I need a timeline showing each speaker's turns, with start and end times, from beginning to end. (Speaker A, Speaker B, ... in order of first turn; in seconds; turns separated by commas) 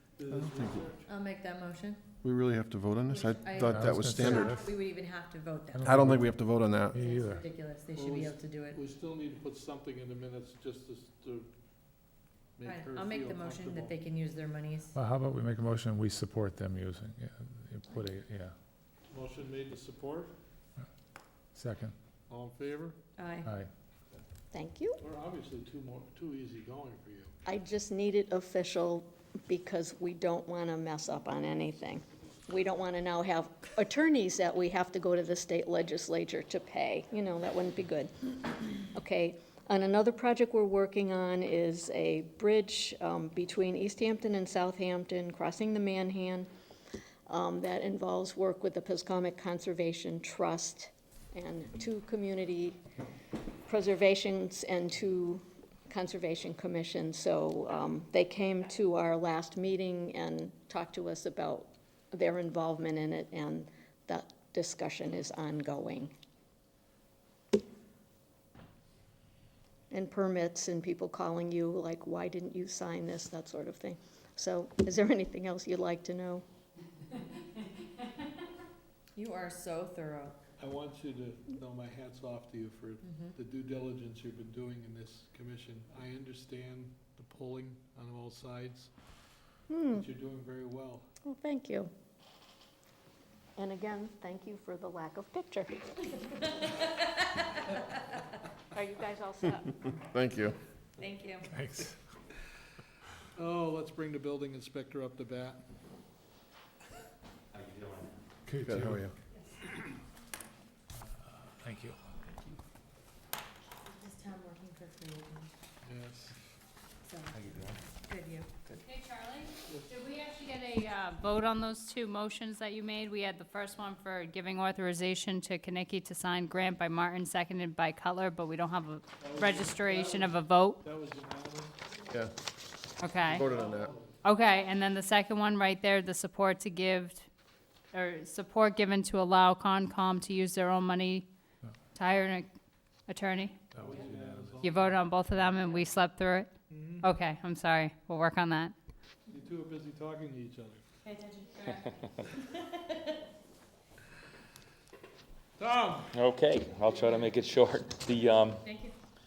Speaker A: 0.2-1.2, Speaker B: 0.4-0.8, Speaker C: 1.0-2.1, Speaker B: 2.2-4.5, Speaker C: 3.1-5.9, Speaker D: 3.6-4.7, Speaker D: 5.7-7.5, Speaker B: 5.8-6.9, Speaker C: 6.9-8.8, Speaker A: 7.9-11.5, Speaker A: 12.6-14.0, Speaker C: 12.6-15.0, Speaker D: 14.9-18.5, Speaker A: 19.1-20.3, Speaker D: 21.6-21.9, Speaker A: 22.3-23.0, Speaker C: 23.2-23.5, Speaker D: 23.4-23.7, Speaker E: 24.5-25.0, Speaker A: 25.0-27.3, Speaker E: 27.5-38.1, Speaker E: 38.9-46.5, Speaker E: 47.3-52.8, Speaker E: 53.7-66.1, Speaker E: 69.9-76.5, Speaker C: 79.2-80.4, Speaker A: 80.6-88.9, Speaker E: 89.7-90.0, Speaker A: 89.9-91.1, Speaker E: 91.2-91.9, Speaker E: 93.6-96.1, Speaker C: 98.8-99.6, Speaker B: 100.0-100.6, Speaker C: 101.0-101.5, Speaker D: 101.5-102.0, Speaker A: 103.4-105.6, Speaker F: 107.7-108.1, Speaker D: 108.5-109.1, Speaker B: 108.6-109.1, Speaker D: 111.0-112.2, Speaker C: 113.9-115.5, Speaker A: 115.8-116.4, Speaker C: 117.0-118.7, Speaker G: 118.8-130.8, Speaker A: 129.2-131.8, Speaker G: 133.0-133.5, Speaker A: 133.2-134.2, Speaker B: 133.3-133.9, Speaker G: 134.2-137.3, Speaker G: 137.9-141.3, Speaker G: 142.0-142.5, Speaker G: 143.1-143.6, Speaker D: 143.8-144.6, Speaker A: 143.8-145.0, Speaker G: 144.6-148.7, Speaker A: 146.7-147.1, Speaker A: 149.3-150.8, Speaker C: 151.1-151.7, Speaker A: 155.6-156.2, Speaker F: 156.1-158.6, Speaker C: 158.7-158.9